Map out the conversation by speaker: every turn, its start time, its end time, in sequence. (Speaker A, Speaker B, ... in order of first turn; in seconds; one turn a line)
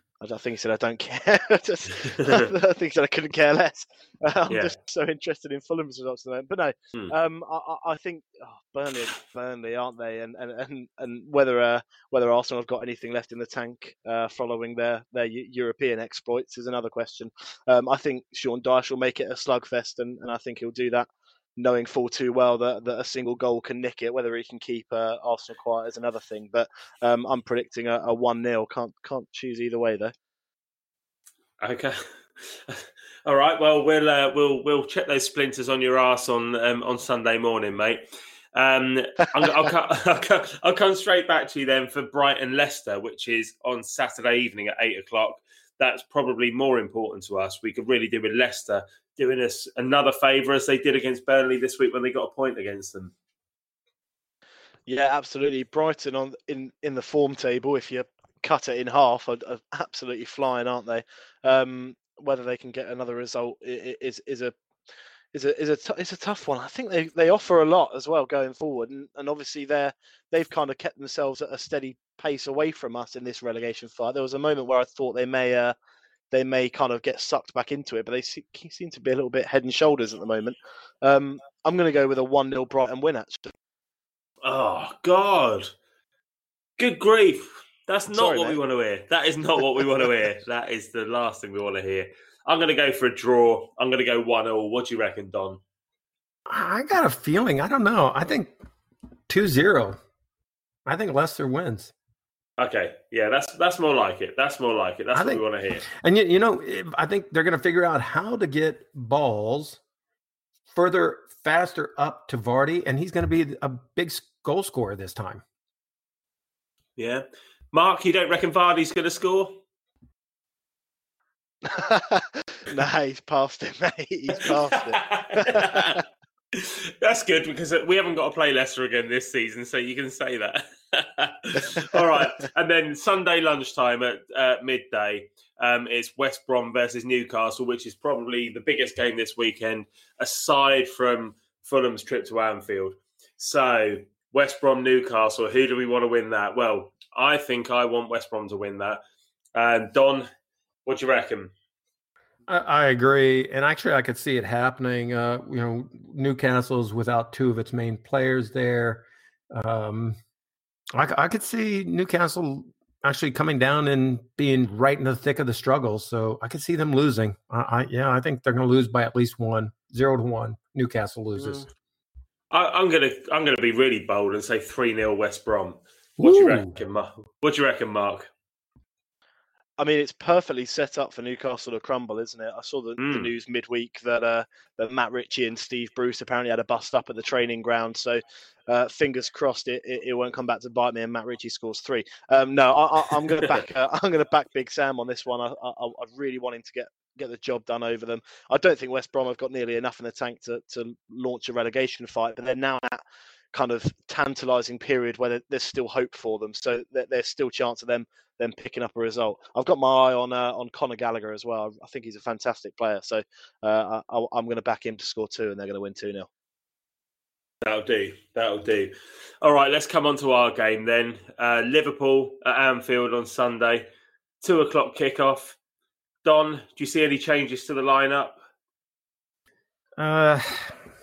Speaker A: 0.2-30.1
Speaker B: 2.1-2.5
Speaker B: 4.5-4.7
Speaker B: 31.6-53.1
Speaker A: 54.9-64.5
Speaker A: 65.3-75.8
Speaker A: 76.3-83.5
Speaker B: 84.4-85.7
Speaker B: 86.8-95.6
Speaker A: 88.1-88.6
Speaker C: 96.5-98.5
Speaker C: 99.3-100.0
Speaker C: 100.9-101.9
Speaker B: 102.6-105.8
Speaker C: 105.1-109.8
Speaker C: 110.7-115.4
Speaker B: 117.0-119.6
Speaker A: 121.6-126.0
Speaker B: 124.4-126.0
Speaker B: 126.5-149.0
Speaker B: 149.6-150.3
Speaker B: 150.9-151.5
Speaker C: 152.5-160.2
Speaker C: 160.9-171.7
Speaker B: 172.5-178.3
Speaker C: 176.2-176.7
Speaker A: 179.8-203.0
Speaker B: 183.0-183.3
Speaker A: 203.5-216.3
Speaker B: 217.6-223.9
Speaker B: 224.4-225.6
Speaker B: 226.2-228.4
Speaker C: 230.0-230.8